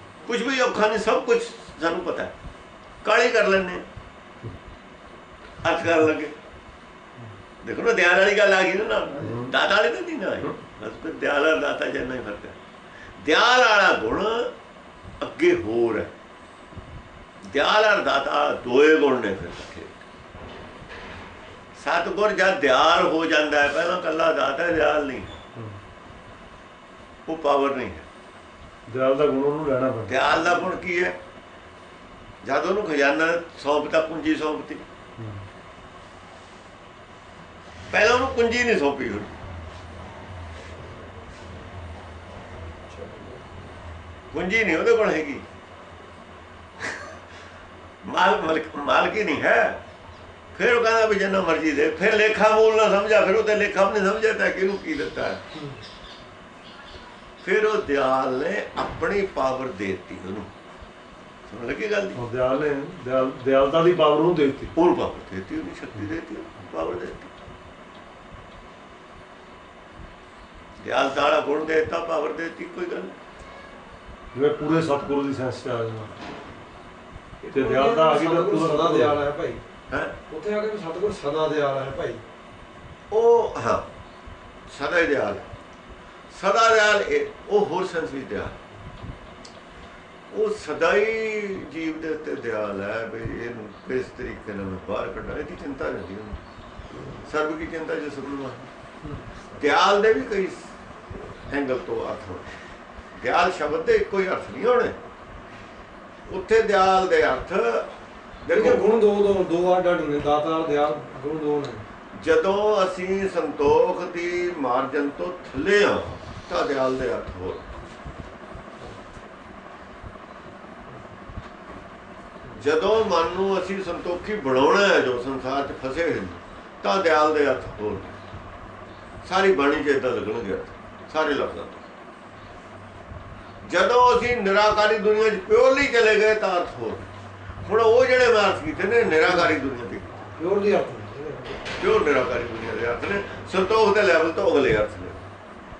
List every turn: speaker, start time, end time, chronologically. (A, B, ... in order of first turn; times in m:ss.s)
0:00.2-0:02.3 A
0:03.0-0:03.8 A
0:05.6-0:06.3 A
0:07.6-0:12.6 A
0:09.2-0:09.5 B
0:13.2-0:14.5 A
0:15.2-0:16.1 A
0:17.4-0:20.0 A
0:21.8-0:25.4 A
0:27.2-0:28.0 A
0:28.9-0:30.2 B
0:30.1-0:31.2 A
0:32.4-0:34.8 A
0:35.2-0:35.4 B
0:37.9-0:39.3 A
0:42.9-0:43.4 C
0:44.3-0:45.4 A
0:48.0-0:49.8 A
0:50.5-0:55.4 A
0:57.4-1:00.5 A
1:01.5-1:02.2 A
1:02.1-1:04.7 B
1:04.7-1:07.3 A
1:10.8-1:13.2 A
1:14.3-1:16.2 B
1:17.4-1:19.6 C
1:17.5-1:19.2 B
1:19.9-1:20.1 A
1:20.3-1:22.2 C
1:23.1-1:23.8 A
1:24.7-1:25.5 A
1:26.3-1:28.6 A
1:30.3-1:36.4 A
1:37.2-1:38.7 A
1:39.0-1:39.3 C
1:39.5-1:40.7 A
1:41.5-1:42.5 A
1:43.1-1:45.0 A
1:46.3-1:47.9 A
1:48.4-1:48.9 A
1:48.5-1:51.8 C
1:52.1-1:57.6 A
2:02.5-2:08.2 A
2:09.2-2:11.8 A
2:13.6-2:17.1 A
2:17.6-2:20.2 A
2:19.3-2:19.5 C
2:20.4-2:21.7 C
2:21.8-2:25.2 A